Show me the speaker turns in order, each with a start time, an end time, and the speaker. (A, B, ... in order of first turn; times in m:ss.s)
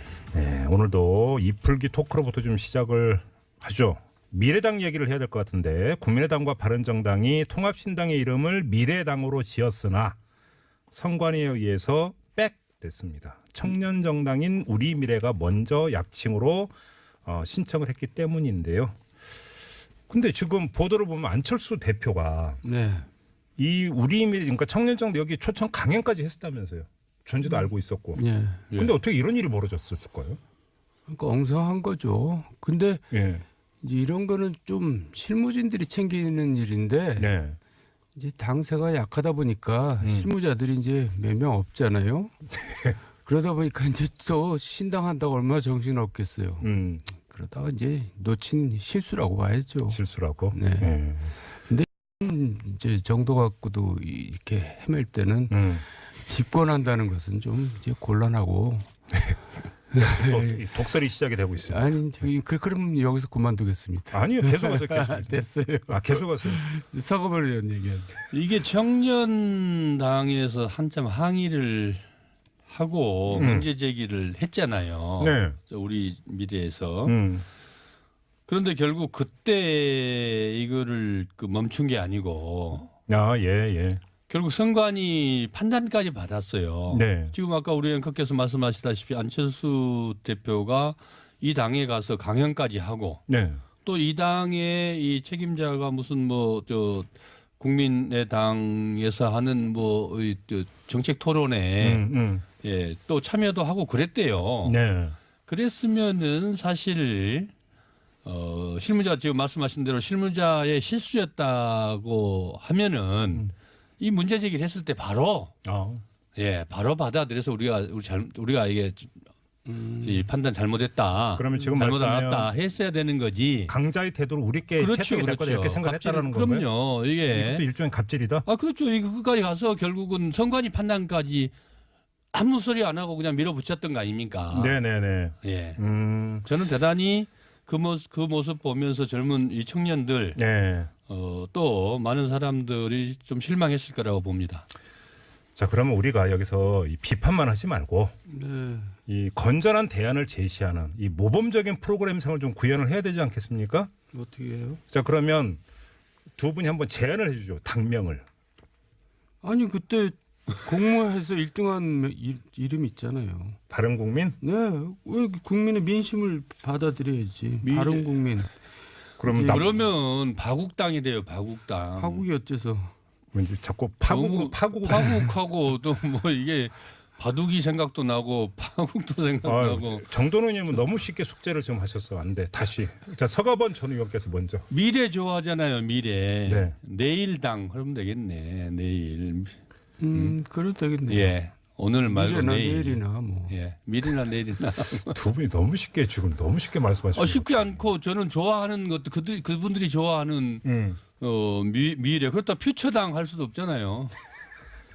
0:00.3-0:10.2 A
0:10.9-0:16.7 A
0:17.2-0:19.0 A
0:20.1-0:22.6 A
0:22.6-0:23.1 B
0:23.6-0:28.2 A
0:27.5-0:28.7 B
0:28.7-0:30.4 A
0:31.1-0:33.1 B
0:33.1-0:33.4 A
0:33.8-0:37.3 B
0:37.2-0:37.6 A
0:38.2-0:42.3 B
0:40.0-0:40.3 A
0:42.6-0:43.0 A
0:43.2-0:50.0 B
0:46.6-0:47.0 A
0:49.9-0:51.3 A
0:50.5-0:51.0 B
0:51.6-0:58.9 B
0:55.5-0:55.8 A
0:59.9-1:00.7 B
0:59.9-1:01.9 A
1:01.7-1:08.1 B
1:04.1-1:06.6 A
1:08.3-1:12.0 C
1:12.7-1:17.2 C
1:13.4-1:13.7 A
1:15.2-1:15.6 A
1:17.1-1:17.4 A
1:18.5-1:22.9 C
1:23.1-1:24.0 A
1:24.3-1:33.2 C
1:26.9-1:27.3 A
1:33.3-1:33.6 A
1:33.8-1:37.1 C
1:37.6-1:42.0 C
1:41.8-1:42.4 A
1:42.6-1:44.8 C
1:44.6-1:45.2 A
1:45.5-1:47.5 C
1:48.2-1:53.5 C
1:54.0-1:55.5 C
1:55.6-1:56.0 A
1:56.4-1:59.1 C
1:59.7-2:00.2 B
2:00.0-2:03.7 C
2:01.4-2:02.5 A
2:03.7-2:06.7 A
2:04.8-2:07.6 C
2:07.3-2:08.4 A
2:08.5-2:11.5 C
2:12.3-2:14.8 C
2:14.5-2:16.5 A
2:15.4-2:15.8 C
2:16.4-2:20.4 C
2:20.4-2:20.9 A
2:21.1-2:24.7 C
2:25.6-2:28.2 A
2:28.3-2:29.0 B
2:29.1-2:33.9 A
2:34.1-2:34.8 B
2:34.9-2:35.6 A
2:36.4-2:38.2 A
2:39.4-2:43.6 B
2:43.7-2:44.4 A
2:44.4-2:48.6 B
2:47.6-2:48.2 C
2:49.2-2:49.8 A
2:49.2-2:49.8 B
2:49.4-2:52.2 C
2:52.0-2:52.9 B
2:53.3-2:55.3 A
2:54.1-3:00.0 C
2:59.4-3:04.7 A
3:04.7-3:09.6 C
3:06.5-3:06.7 A
3:10.0-3:11.3 B
3:11.1-3:15.2 C
3:12.0-3:13.5 B
3:15.1-3:17.8 A
3:17.2-3:24.1 C
3:20.6-3:21.0 A